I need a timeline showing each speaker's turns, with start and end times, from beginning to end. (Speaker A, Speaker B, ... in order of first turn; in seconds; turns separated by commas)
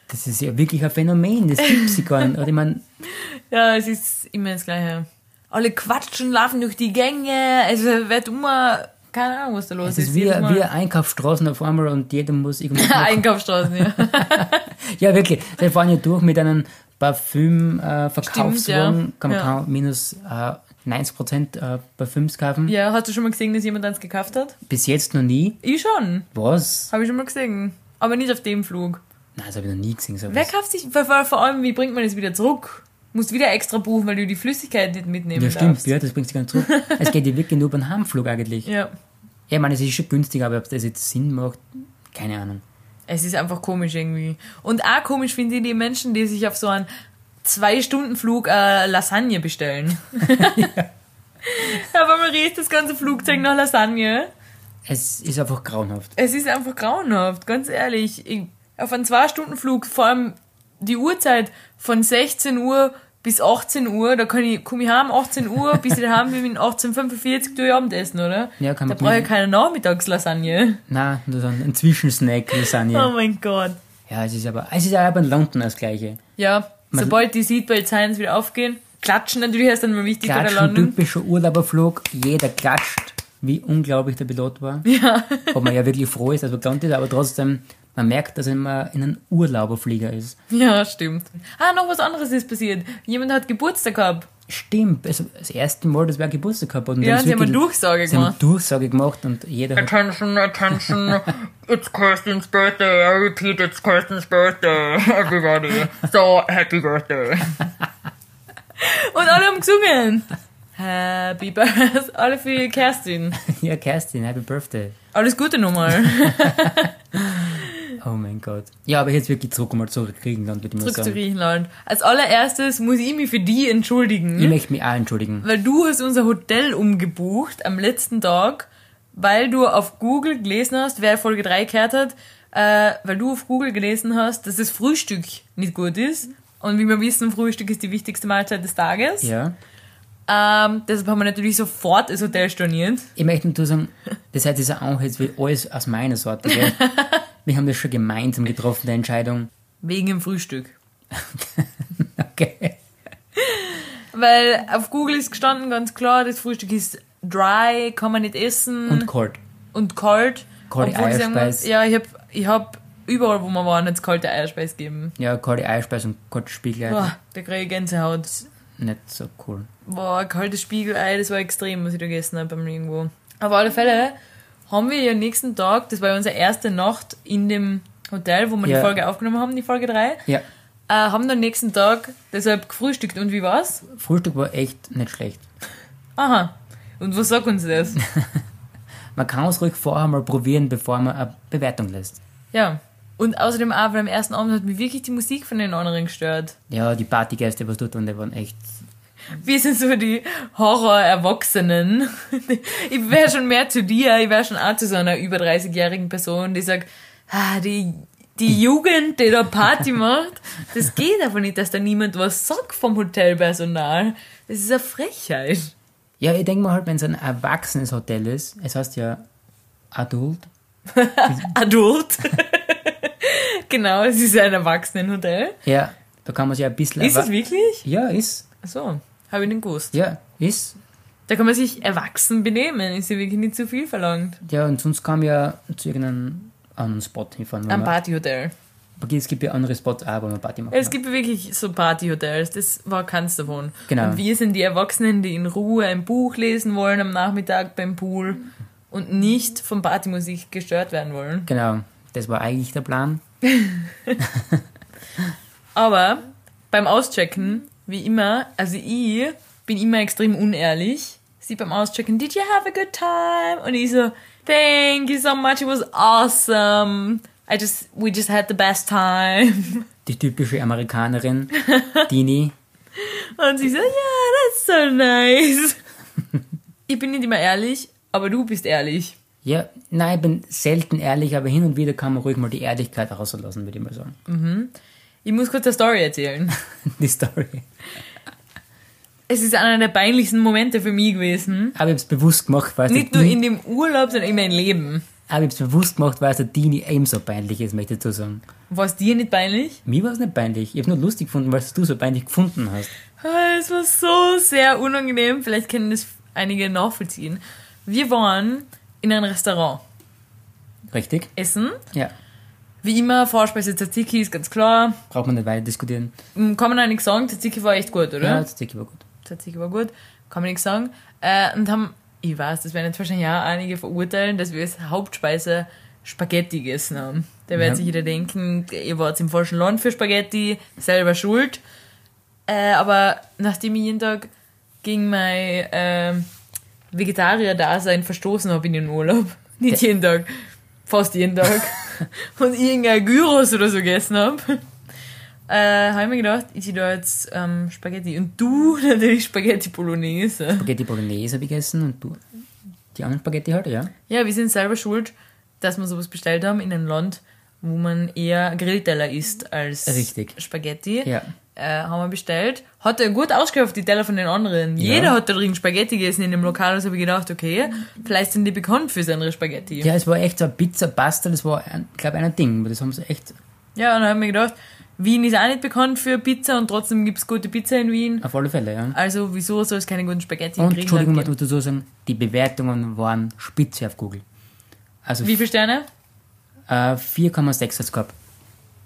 Speaker A: 0.1-2.8, Speaker B: 1.6-2.0, Speaker B: 3.0-10.7, Speaker A: 9.8-22.7, Speaker B: 12.7-14.6, Speaker B: 18.2-19.5, Speaker B: 22.6-24.6, Speaker A: 24.6-25.6, Speaker B: 25.6-26.3, Speaker A: 26.3-26.9, Speaker B: 26.9-29.0, Speaker A: 29.4-30.5, Speaker B: 30.3-35.9, Speaker A: 35.3-38.7, Speaker B: 36.6-37.1, Speaker B: 38.6-38.9, Speaker A: 39.5-42.6, Speaker B: 43.1-46.9, Speaker B: 47.4-50.7, Speaker A: 50.2-50.9, Speaker B: 51.4-54.3, Speaker A: 54.9-56.1, Speaker B: 56.1-70.8, Speaker A: 68.6-69.3, Speaker A: 70.9-73.1, Speaker B: 72.6-73.8, Speaker A: 74.1-76.2, Speaker B: 76.4-81.0, Speaker A: 76.9-77.2, Speaker A: 80.2-84.9, Speaker B: 84.8-85.6, Speaker A: 85.5-90.4, Speaker B: 90.5-94.3, Speaker A: 94.5-100.0, Speaker B: 97.0-98.4, Speaker C: 100.0-107.5, Speaker B: 105.3-106.1, Speaker B: 108.8-113.3, Speaker A: 113.3-115.0, Speaker B: 115.1-117.8, Speaker A: 116.4-121.2, Speaker B: 120.8-124.5, Speaker A: 124.3-125.5, Speaker B: 125.4-139.3, Speaker A: 139.2-139.5, Speaker B: 140.3-143.1, Speaker A: 143.2-146.9, Speaker B: 146.5-147.2, Speaker A: 147.4-149.5, Speaker B: 149.8-150.7, Speaker A: 151.1-152.8, Speaker B: 153.3-159.1, Speaker A: 158.9-159.4, Speaker B: 159.7-165.2, Speaker A: 160.7-161.7, Speaker A: 165.2-167.1, Speaker B: 166.9-168.3, Speaker A: 168.8-169.7, Speaker B: 169.8-174.2, Speaker B: 174.7-180.2, Speaker A: 178.6-178.9, Speaker B: 180.9-183.8, Speaker A: 183.8-185.5, Speaker B: 186.2-188.0, Speaker A: 189.2-192.2, Speaker B: 192.5-196.6, Speaker A: 196.7-198.8, Speaker B: 199.3-215.7, Speaker A: 216.2-219.2, Speaker A: 219.9-220.5, Speaker B: 220.9-225.6, Speaker A: 225.6-228.4, Speaker B: 227.0-227.8, Speaker B: 228.6-229.9, Speaker A: 229.9-230.8, Speaker B: 231.3-234.4, Speaker A: 234.4-237.9, Speaker B: 237.7-238.5, Speaker A: 239.0-240.9, Speaker B: 240.7-251.5, Speaker A: 243.9-244.2, Speaker A: 251.4-253.2, Speaker B: 253.4-254.2, Speaker A: 254.2-254.6, Speaker B: 255.7-269.9, Speaker A: 270.1-271.5, Speaker B: 271.6-272.0, Speaker A: 272.1-272.5, Speaker B: 272.9-275.8, Speaker B: 276.9-279.1, Speaker A: 279.4-284.2, Speaker B: 284.3-284.7, Speaker B: 285.2-286.6, Speaker A: 286.8-287.7, Speaker B: 289.3-291.8, Speaker A: 291.7-293.4, Speaker B: 292.9-295.0, Speaker A: 295.3-298.4, Speaker B: 298.7-299.8, Speaker A: 299.8-302.9, Speaker B: 303.2-309.8, Speaker A: 310.9-311.3, Speaker B: 311.4-311.8, Speaker B: 312.8-315.0, Speaker A: 315.1-316.1, Speaker B: 316.3-318.4, Speaker A: 318.2-319.0, Speaker B: 319.2-331.6, Speaker A: 327.6-327.8, Speaker B: 332.5-334.3, Speaker B: 334.8-336.3, Speaker B: 336.9-344.6, Speaker B: 345.5-350.7, Speaker A: 350.5-352.2, Speaker A: 352.9-353.9, Speaker B: 354.1-369.9, Speaker A: 359.8-360.4, Speaker A: 361.0-361.3, Speaker A: 364.8-365.1, Speaker A: 369.8-373.4, Speaker B: 373.8-378.2, Speaker A: 378.2-379.0, Speaker B: 378.9-381.3, Speaker A: 380.6-384.2, Speaker A: 385.0-385.4, Speaker B: 385.2-385.9, Speaker A: 386.7-388.1